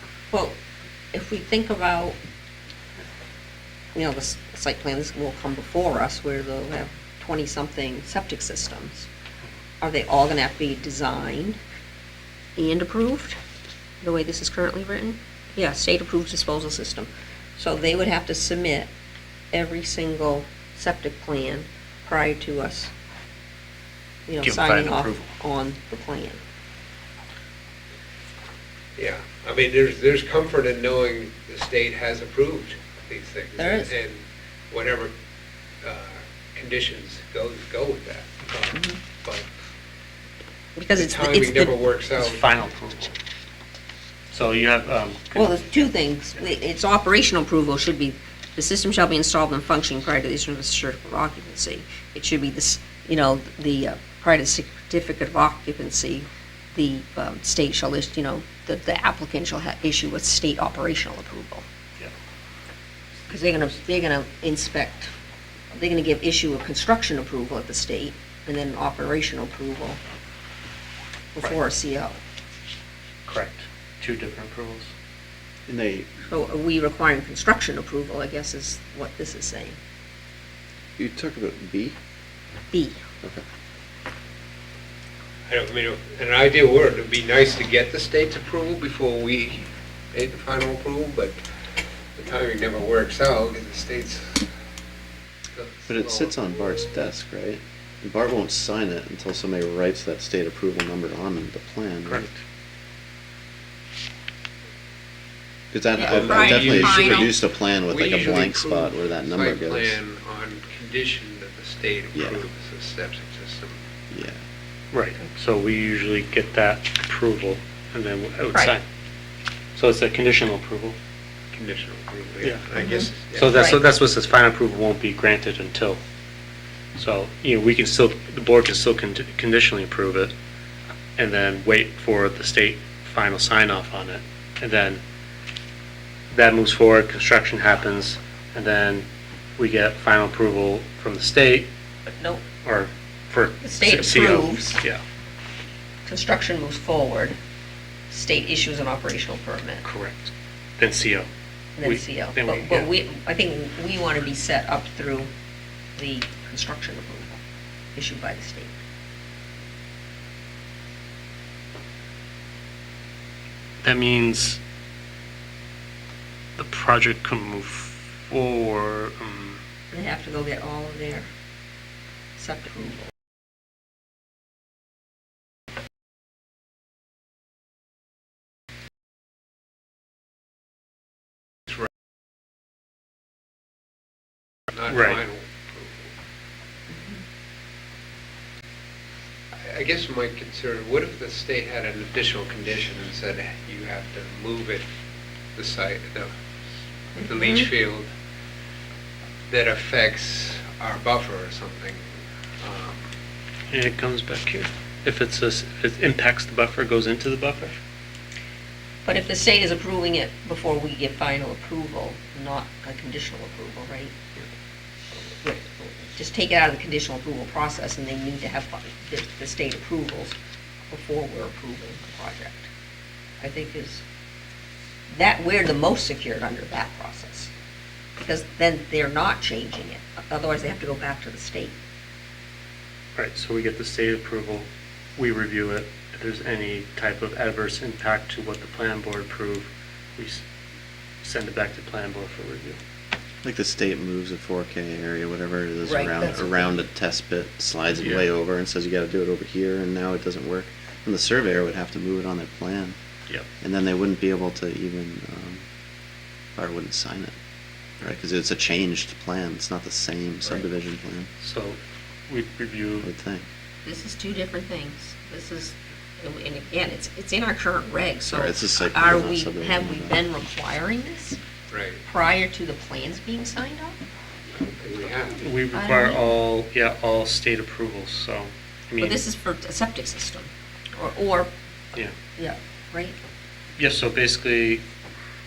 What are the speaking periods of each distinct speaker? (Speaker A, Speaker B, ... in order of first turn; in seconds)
Speaker A: 0.3-0.6, 1.1-2.2, 3.9-9.1, 9.8-11.6, 12.6-13.4, 14.0-18.9, 19.5-22.9, 24.2-26.4, 33.6-33.9, 40.8-41.7, 45.3-61.6, 63.3-65.1, 65.7-70.0, 71.3-72.2, 76.2-79.8, 82.7-83.0, 106.0-107.3, 122.8-123.8, 142.2-142.4, 143.6-144.8, 146.1-147.3, 148.1-149.8, 151.8-155.3, 156.0-157.4, 157.9-158.8, 169.9-171.3, 172.3-173.1, 186.9-187.2, 197.2-197.7, 209.0-214.2, 215.2-220.3, 220.9-222.7, 223.4-224.0, 225.1-227.5, 228.2-231.8, 245.8-246.8, 263.8-271.4, 272.0-274.0, 275.7-276.3, 279.0-281.5, 282.4-283.2
Speaker B: 24.4-25.3, 42.2-43.2, 44.3-45.8, 73.2-74.9, 102.0-102.4, 114.9-118.8, 119.8-121.0, 123.3-126.0, 127.0-130.3, 131.2-135.0, 136.3-139.1, 139.6-141.7, 142.6-145.0, 149.8-151.3, 151.8-152.9, 163.8-164.6, 166.6-169.6, 184.9-185.2, 203.7-207.8, 233.2-240.4, 241.2-242.8, 248.0-248.2, 261.4-263.1, 275.3-279.2, 283.8-284.8
Speaker C: 28.9-35.1, 35.8-39.5, 41.0-42.4, 85.5-91.4, 92.2-94.5, 95.5-96.3, 106.0-113.8, 121.5-123.7, 184.7-186.1, 189.6-194.8, 195.6-196.3, 197.2-198.1, 199.5-202.0, 202.6-203.0, 271.7-272.0, 274.5-275.4
Speaker D: 75.7-76.1, 81.0-82.0, 95.9-102.2, 105.7-110.0, 114.1-114.4, 243.4-252.9, 253.6-255.6, 256.6-257.3, 258.0-261.3, 263.0-263.4, 268.3-270.2